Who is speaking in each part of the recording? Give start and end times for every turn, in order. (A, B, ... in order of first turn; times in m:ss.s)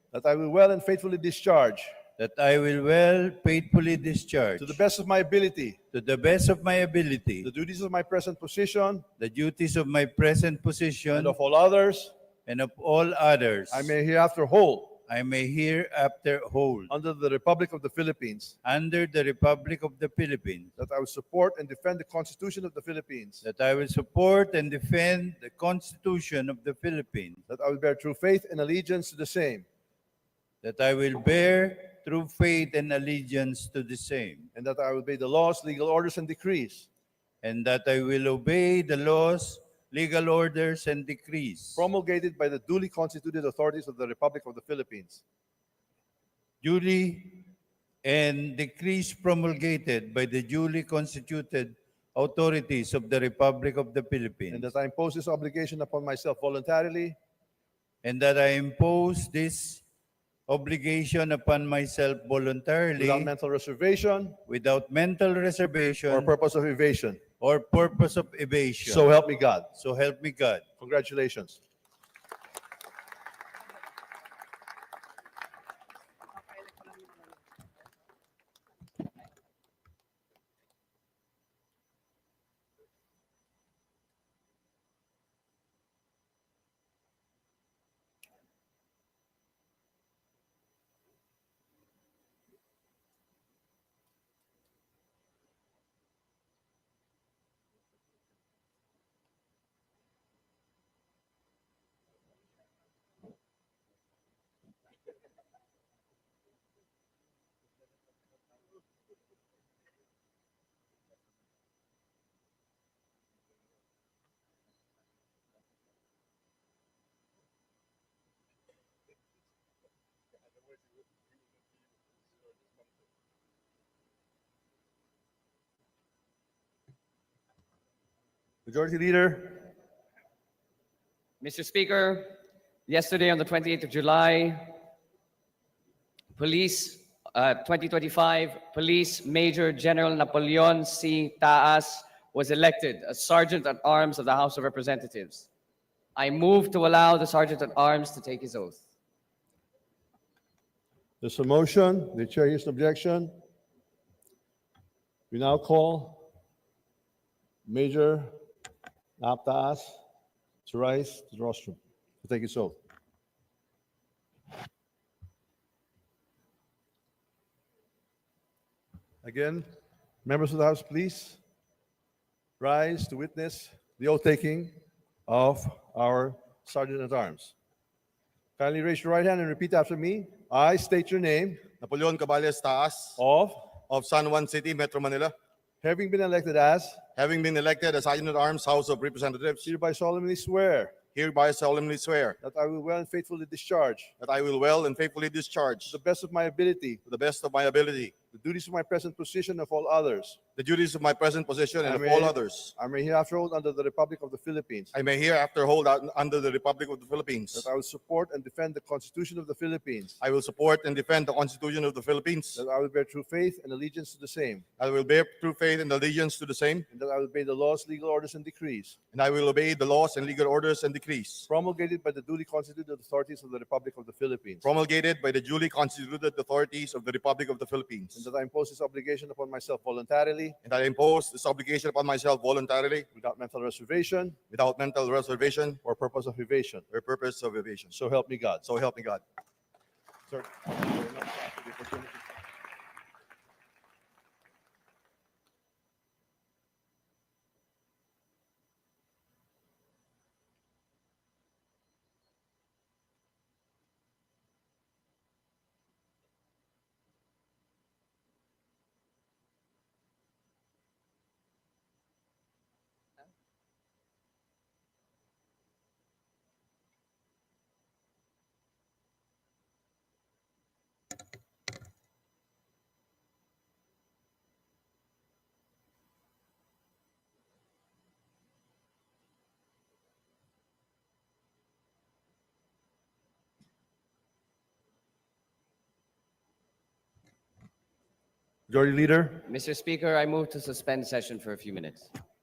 0:00.1-0:01.9 A
0:02.2-0:04.8 B
0:04.6-0:05.8 A
0:05.9-0:07.5 B
0:07.4-0:09.1 A
0:09.2-0:11.4 B
0:11.1-0:12.1 A
0:12.5-0:13.9 B
0:13.7-0:15.0 A
0:15.1-0:16.9 B
0:16.9-0:18.6 A
0:18.6-0:20.7 B
0:20.8-0:23.4 A
0:23.4-0:27.4 B
0:27.5-0:29.7 A
0:30.6-0:34.5 B
0:34.6-0:36.9 A
0:37.4-0:41.9 B
0:41.8-0:45.2 A
0:46.6-0:47.5 B
0:48.0-0:54.7 B
0:54.5-0:57.2 A
0:58.0-0:59.8 B
1:00.5-1:03.3 B
1:03.0-1:04.4 A
1:04.5-1:06.3 B
1:06.1-1:07.2 A
1:07.4-1:09.1 B
1:08.8-1:09.7 A
1:09.7-1:10.6 B
1:10.8-1:11.6 A
2:08.7-2:09.7 A
2:11.4-2:14.8 C
2:16.4-2:25.5 C
2:26.2-2:28.8 C
2:31.2-2:33.4 A
2:35.3-2:36.3 A
2:37.6-2:38.3 A
2:39.2-2:40.0 A
2:40.7-2:42.8 A
2:49.2-2:49.7 A
2:50.2-2:51.4 A
2:52.6-2:57.5 A
2:58.6-3:01.7 A
3:01.8-3:03.2 D
3:03.2-3:03.7 A
3:03.9-3:05.4 D
3:05.8-3:07.0 A
3:07.2-3:09.7 D
3:09.6-3:11.0 A
3:11.1-3:12.4 D
3:12.4-3:14.1 A
3:14.2-3:16.0 D
3:15.9-3:17.0 A
3:17.1-3:18.2 D
3:18.3-3:20.4 A
3:20.6-3:22.7 D
3:21.8-3:24.9 A
3:24.9-3:27.7 D
3:27.5-3:30.2 A
3:30.2-3:32.6 D
3:32.6-3:34.6 A
3:34.8-3:36.9 D
3:36.9-3:39.0 A
3:39.1-3:41.5 D
3:41.5-3:44.7 A
3:44.6-3:48.3 D
3:48.2-3:50.6 A
3:50.6-3:53.1 D
3:53.2-3:54.4 A
3:54.5-3:55.8 D
3:55.8-3:56.8 A
3:56.9-3:58.0 D
3:57.9-3:58.6 A
3:58.6-3:59.2 D
4:00.3-4:02.2 A
4:48.7-4:49.5 A
4:49.5-4:52.1 C